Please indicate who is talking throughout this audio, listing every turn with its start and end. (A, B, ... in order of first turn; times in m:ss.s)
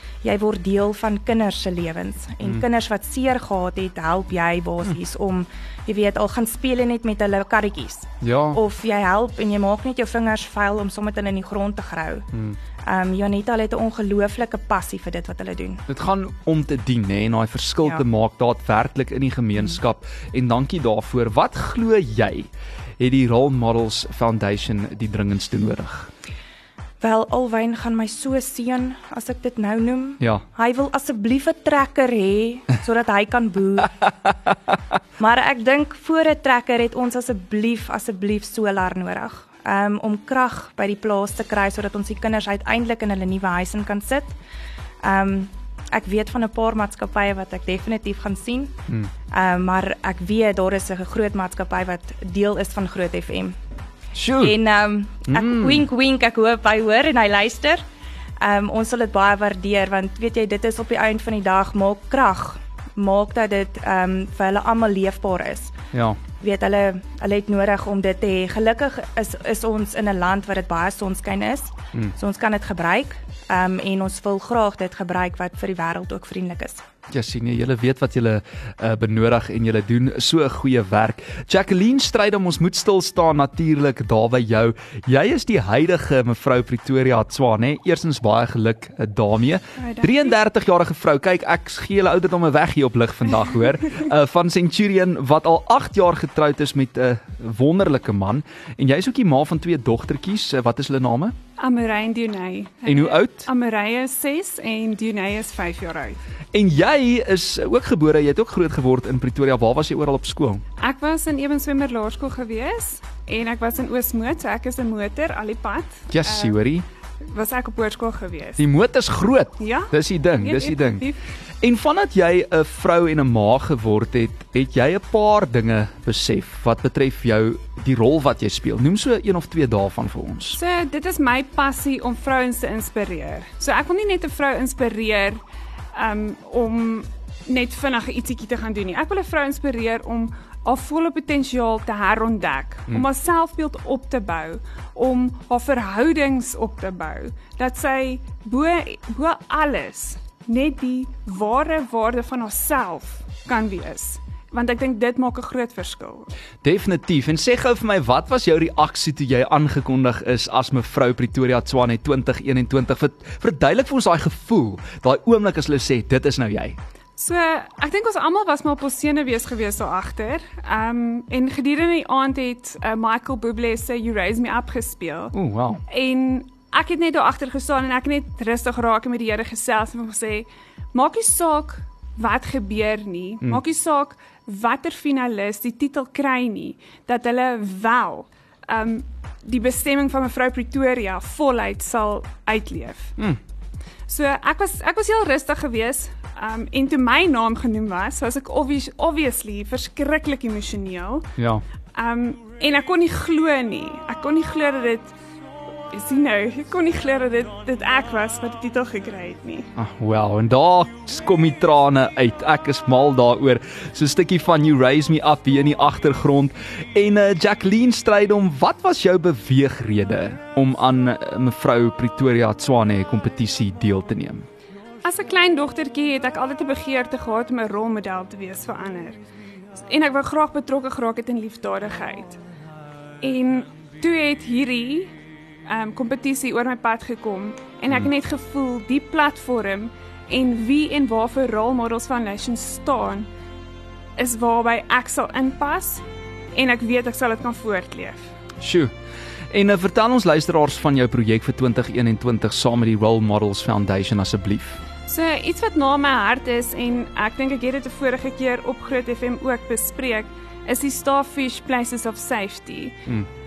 0:00.2-0:12.3 A
0:08.2-0:08.6 B
0:12.8-0:15.8 A
0:15.9-0:26.1 B
0:27.0-0:34.0 A
0:30.2-0:30.4 B
0:35.2-0:44.4 A
0:45.0-0:53.6 A
0:54.1-0:54.6 B
0:54.4-0:57.8 A
0:55.3-0:55.8 B
0:58.4-1:05.7 A
1:05.9-1:06.2 B
1:06.4-1:16.8 A
1:17.1-1:41.4 B
1:29.8-1:30.4 C
1:41.6-1:46.2 C
1:42.8-1:43.5 B
1:46.5-1:50.6 B
1:50.8-1:56.5 C
1:56.1-1:56.8 B
1:57.3-1:58.6 C
1:58.6-2:01.1 B
1:59.6-2:01.2 C
2:01.6-2:10.6 B
2:10.5-2:15.4 C
2:15.9-2:36.3 C
2:36.6-2:46.8 B
2:47.2-2:55.3 C
2:55.3-2:55.8 B
2:55.9-3:13.2 C
3:14.1-3:21.3 C
3:21.4-3:21.6 B
3:22.0-3:25.1 C
3:25.9-3:29.7 C
3:29.8-3:44.5 B
3:45.0-3:49.2 C
3:49.8-3:52.4 C
3:53.2-3:55.1 C
3:55.7-4:03.3 C
4:04.2-4:06.0 C
4:06.5-4:08.3 C
4:08.6-4:08.9 B
4:09.5-4:14.8 B
4:15.1-4:23.0 C